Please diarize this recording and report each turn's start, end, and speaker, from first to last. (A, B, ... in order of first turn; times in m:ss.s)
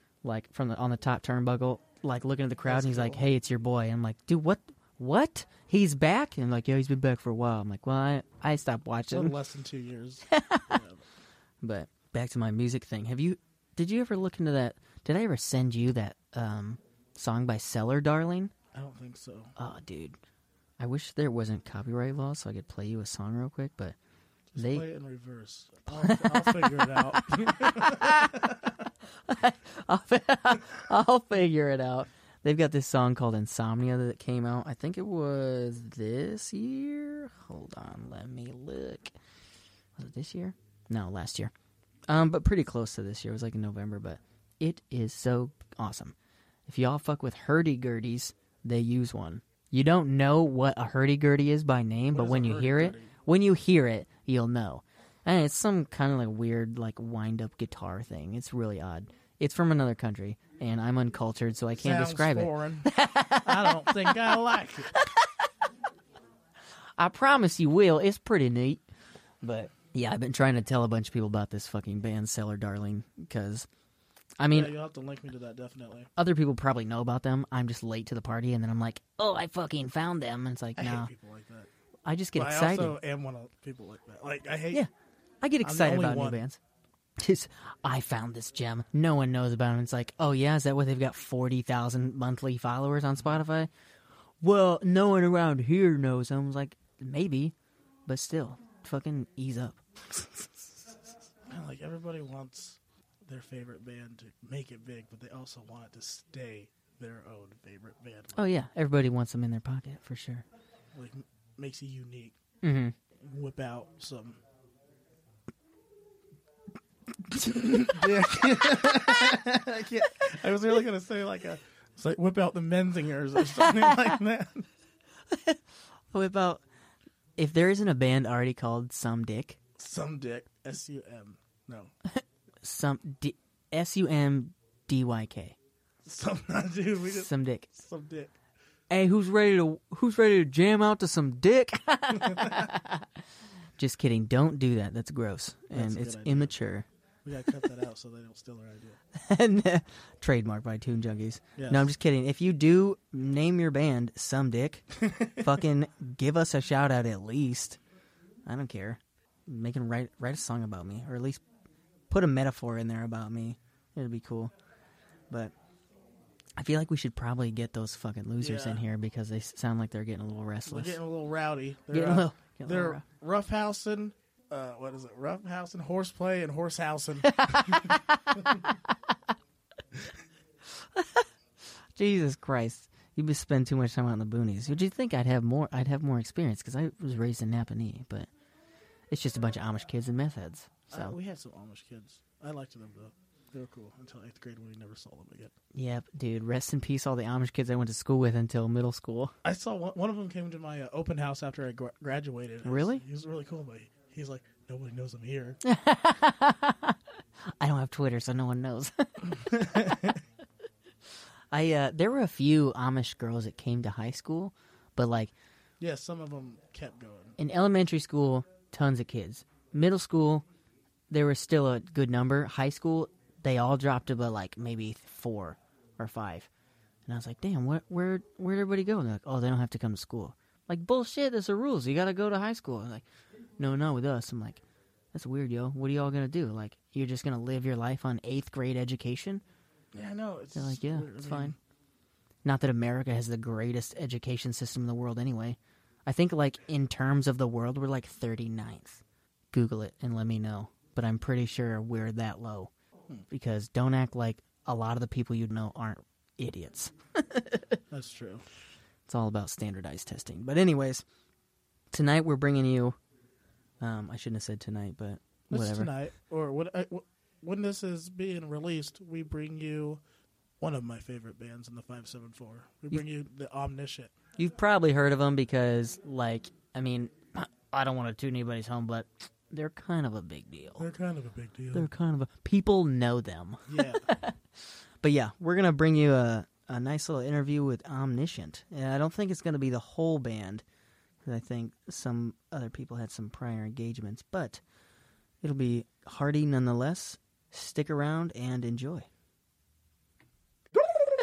0:00.2-0:09.3 A
0:02.6-0:03.2 B
0:09.1-0:11.0 B
0:10.3-0:10.8 A
0:11.6-0:18.5 A
0:18.7-0:19.5 B
0:19.6-0:20.2 A
0:20.8-0:24.0 A
0:24.5-0:28.7 B
0:24.6-0:24.8 A
0:26.0-0:28.5 A
0:29.3-0:39.1 A
0:40.0-0:41.5 A
0:42.1-0:46.1 A
0:46.7-1:04.3 A
0:52.1-0:53.1 B
1:01.8-1:02.9 B
1:03.4-1:04.9 B
1:04.9-1:05.3 A
1:07.0-1:08.8 A
1:09.4-1:13.7 A
1:14.4-1:14.7 A
1:14.5-1:16.1 B
1:16.2-1:21.1 A
1:20.8-1:21.7 B
1:22.0-1:23.0 A
1:22.3-1:24.8 B
1:25.4-1:26.6 A
1:25.6-1:26.4 B
1:27.2-1:33.7 A
1:34.4-1:37.5 A
1:38.0-1:40.5 A
1:41.5-1:48.5 B
1:48.3-1:50.4 A
1:50.9-1:52.4 B
1:52.6-1:52.9 A
1:53.2-1:54.4 B
1:57.3-1:57.9 A
1:57.4-2:04.7 B
1:58.8-1:59.1 A
2:03.6-2:03.9 A
2:05.3-2:05.6 A
2:06.1-2:06.6 A
2:07.4-2:09.6 A
2:09.8-2:11.9 B
2:12.1-2:15.6 A
2:16.0-2:18.3 B
2:17.0-2:17.7 A
2:18.9-2:23.1 A
2:22.2-2:22.7 B
2:23.8-2:26.8 A
2:25.7-2:26.5 B
2:27.2-2:29.0 B
2:29.1-2:37.8 A
2:31.6-2:31.9 B
2:38.4-2:41.4 A
2:42.1-2:44.5 A
2:46.6-2:51.0 A
2:48.4-2:48.8 B
2:50.6-2:58.0 B
2:51.9-2:53.0 A
2:57.2-2:58.9 A
3:00.9-3:01.2 A
3:02.0-3:08.3 A
3:09.1-3:11.2 A
3:10.9-3:15.5 B
3:15.7-3:19.3 A
3:19.4-3:25.6 B
3:22.6-3:23.0 A
3:25.6-3:27.0 A
3:27.6-3:29.4 A
3:29.3-3:30.2 B
3:31.5-3:35.3 A
3:35.8-3:37.4 B
3:37.4-3:40.4 A
3:41.1-3:46.5 A
3:47.0-3:53.0 A
3:53.6-3:54.6 A
3:55.1-3:59.4 A
3:59.9-4:01.6 B
4:00.5-4:01.5 A
4:02.4-4:12.7 A
4:13.3-4:17.8 A
4:17.9-4:18.4 B
4:19.1-4:21.0 A
4:21.9-4:23.0 A
4:23.8-4:25.9 A
4:25.5-4:30.0 B
4:30.6-4:34.1 B
4:34.4-4:40.8 A
4:40.8-4:41.9 B
4:41.7-4:44.4 A
4:43.7-4:44.1 B
4:45.0-4:50.6 A
4:51.2-4:54.6 A
4:55.4-4:59.1 A